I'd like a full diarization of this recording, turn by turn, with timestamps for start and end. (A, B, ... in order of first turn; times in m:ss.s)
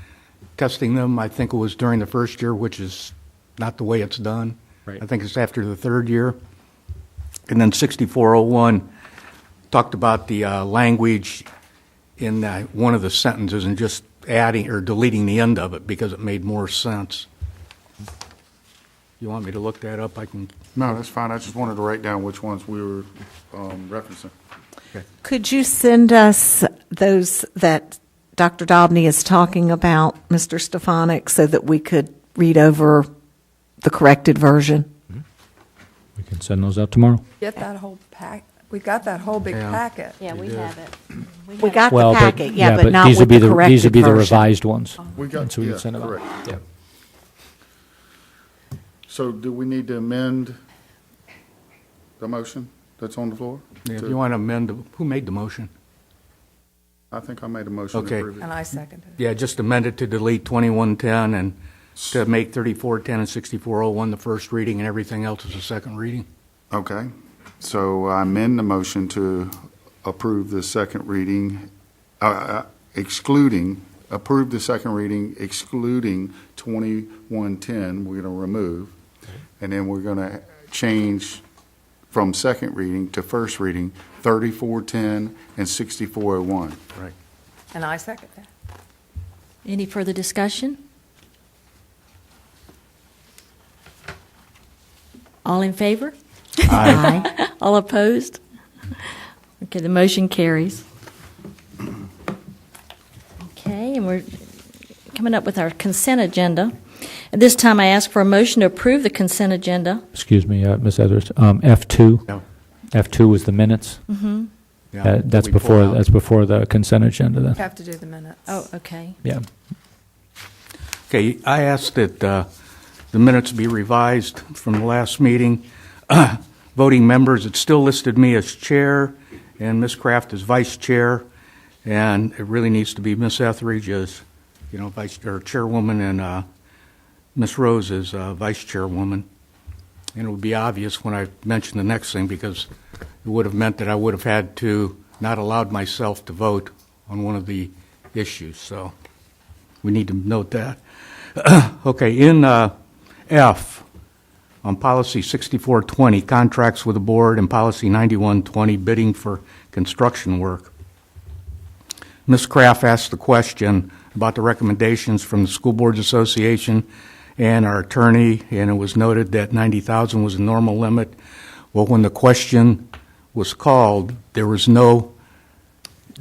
0:00.6-0:06.4 A
0:07.5-0:08.9 A
0:09.7-0:11.5 A
0:12.2-0:17.3 A
0:19.2-0:20.5 A
0:20.7-0:24.3 B
0:25.2-0:33.1 C
0:33.8-0:34.9 C
0:36.2-0:37.2 D
0:37.4-0:40.2 E
0:39.5-0:40.7 A
0:40.2-0:41.8 F
0:41.6-0:44.4 C
0:41.9-0:46.6 D
0:45.1-0:46.3 B
0:49.1-0:50.6 B
0:52.2-0:54.2 B
0:53.8-0:55.7 A
0:57.1-0:58.5 B
0:57.9-0:58.2 A
0:58.4-0:59.2 E
0:59.2-1:01.6 A
1:02.1-1:06.2 A
1:06.7-1:11.7 B
1:12.2-1:18.9 B
1:19.6-1:21.4 B
1:22.1-1:26.8 B
1:27.7-1:28.5 E
1:29.6-1:30.8 F
1:35.4-1:38.4 F
1:36.7-1:37.2 A
1:36.8-1:37.2 C
1:38.9-1:40.8 F
1:43.5-1:44.3 F
1:45.1-1:50.0 F
1:50.1-1:52.4 D
1:52.9-1:54.0 D
1:54.1-1:54.5 F
1:54.9-1:56.0 A
1:55.0-1:57.6 D
1:57.6-1:58.6 E
1:58.5-1:59.2 F
2:01.1-2:02.5 A
2:03.1-2:11.2 A
2:11.8-2:16.4 A
2:17.3-2:19.3 A
2:20.1-2:22.7 A
2:23.2-2:28.9 A
2:29.8-2:30.8 A
2:31.3-2:32.7 A
2:33.3-2:33.8 A
2:34.6-2:40.7 A
2:42.3-2:46.9 A
2:47.4-2:51.2 A
2:51.7-2:55.1 A